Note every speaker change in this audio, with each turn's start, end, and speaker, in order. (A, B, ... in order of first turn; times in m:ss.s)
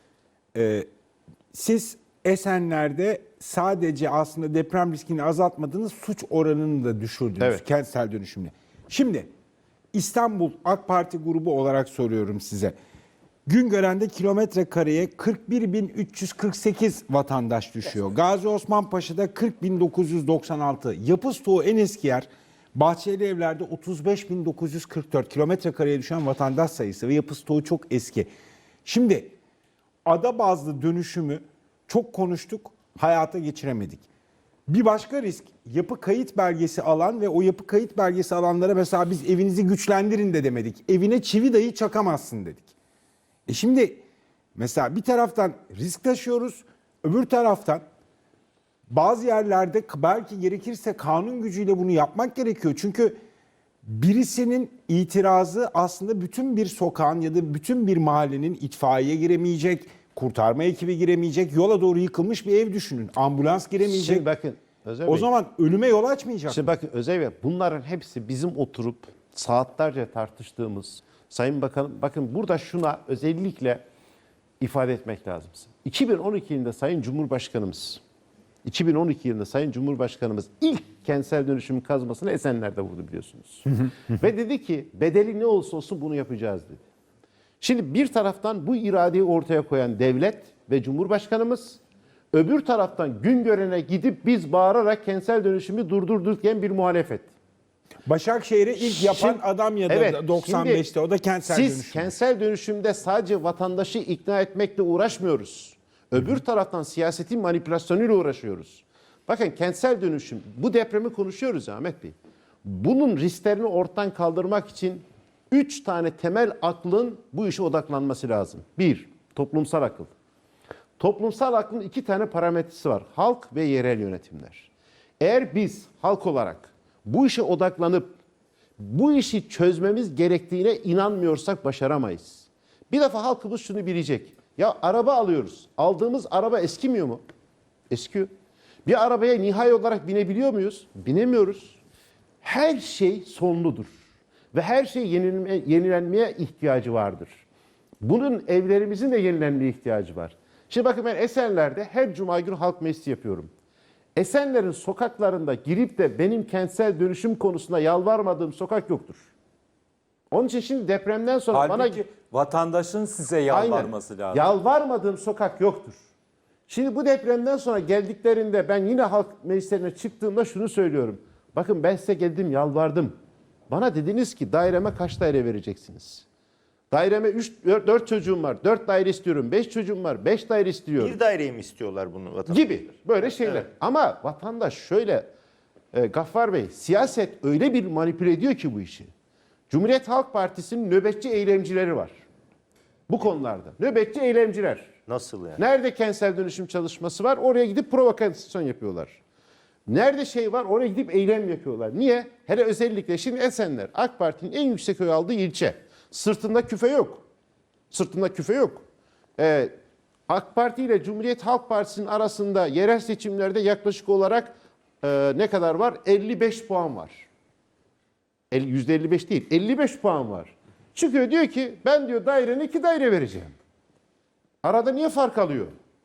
0:00.5-0:00.9 A
0:01.5-0:09.3 A
0:09.9-0:12.8 A
0:13.5-0:28.3 A
0:28.8-0:29.4 A
0:30.0-0:34.1 A
0:34.7-0:42.7 A
0:43.5-0:44.0 A
0:44.6-0:47.8 A
0:48.9-0:53.2 A
0:53.8-1:04.3 A
1:03.8-1:05.3 B
1:05.1-1:06.6 A
1:06.5-1:13.8 B
1:14.6-1:18.0 B
1:18.6-1:26.8 B
1:27.6-1:31.8 B
1:32.3-1:37.3 B
1:38.1-1:42.1 A
1:38.8-1:40.9 B
1:41.4-2:00.1 B
2:01.0-2:08.2 B
2:08.8-2:17.2 B
2:17.9-2:18.3 B
2:18.9-2:21.8 B
2:22.4-2:24.0 B
2:24.5-2:27.4 B
2:28.0-2:33.5 B
2:34.2-2:39.3 B
2:40.3-2:42.0 B
2:41.5-2:44.5 C
2:43.5-2:46.0 B
2:46.7-2:53.2 B
2:53.7-2:56.2 B
2:56.9-3:01.2 B
3:01.0-3:03.6 D
3:02.5-3:05.3 B
3:05.9-3:09.1 B
3:09.7-3:12.2 B
3:13.1-3:15.0 B
3:15.1-3:15.6 D
3:15.6-3:19.2 B
3:19.9-3:27.2 B
3:27.9-3:28.8 B
3:29.4-3:29.7 B
3:30.3-3:37.3 B
3:38.5-3:43.6 B
3:44.6-3:45.7 B